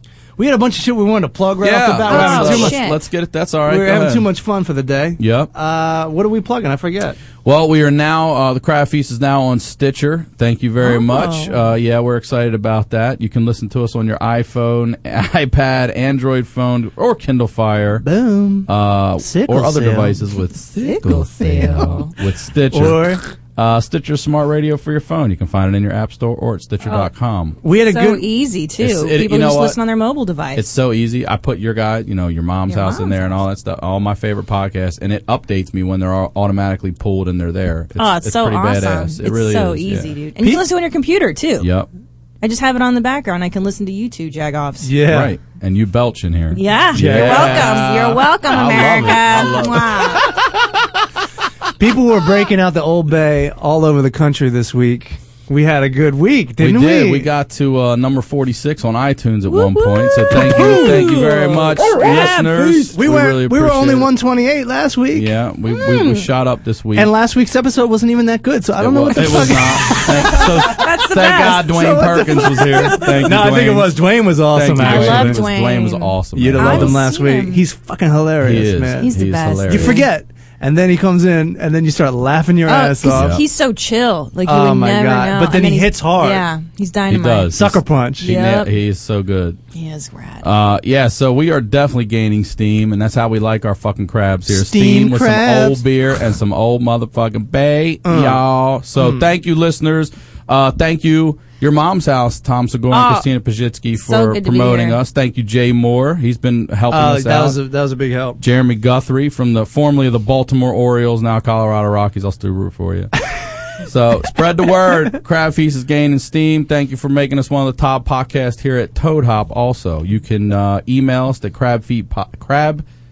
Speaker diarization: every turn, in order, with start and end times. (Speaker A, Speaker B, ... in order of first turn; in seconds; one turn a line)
Speaker A: 0.4-2.8
Speaker B: 1.6-4.3
Speaker C: 2.0-3.0
Speaker A: 3.6-7.2
Speaker B: 5.2-5.5
Speaker B: 7.4-18.1
Speaker C: 10.8-11.7
Speaker A: 18.0-20.2
Speaker B: 18.6-27.6
Speaker C: 20.8-22.1
Speaker A: 21.6-21.9
Speaker A: 22.7-23.2
Speaker C: 26.8-27.1
Speaker A: 27.6-28.3
Speaker C: 27.8-30.7
Speaker B: 28.8-29.8
Speaker B: 30.5-40.1
Speaker C: 32.7-33.4
Speaker C: 38.0-41.7
Speaker A: 40.4-40.6
Speaker B: 41.6-41.9
Speaker C: 42.4-44.9
Speaker A: 44.8-45.3
Speaker B: 45.0-50.3
Speaker C: 46.5-50.3
Speaker A: 46.9-47.8
Speaker A: 51.8-57.3
Speaker B: 56.6-64.1
Speaker C: 59.5-61.3
Speaker A: 60.3-65.3
Speaker C: 61.8-62.5
Speaker B: 65.1-67.1
Speaker C: 65.7-66.3
Speaker A: 66.9-70.5
Speaker B: 68.8-77.0
Speaker C: 69.2-69.5
Speaker C: 70.3-73.1
Speaker A: 71.6-75.4
Speaker C: 74.8-77.6
Speaker A: 76.3-79.1
Speaker B: 78.4-80.0
Speaker C: 79.0-80.1
Speaker A: 79.7-83.4
Speaker C: 82.7-87.5
Speaker B: 83.0-83.4
Speaker A: 84.4-86.5
Speaker B: 87.1-89.6
Speaker A: 87.5-88.3
Speaker C: 88.2-88.7
Speaker C: 89.7-90.5
Speaker B: 90.4-107.6
Speaker A: 94.5-95.8
Speaker A: 98.0-98.4
Speaker A: 99.0-99.3
Speaker C: 102.9-103.3
Speaker C: 104.0-105.0
Speaker A: 106.9-108.4
Speaker B: 108.4-113.1
Speaker B: 113.8-122.8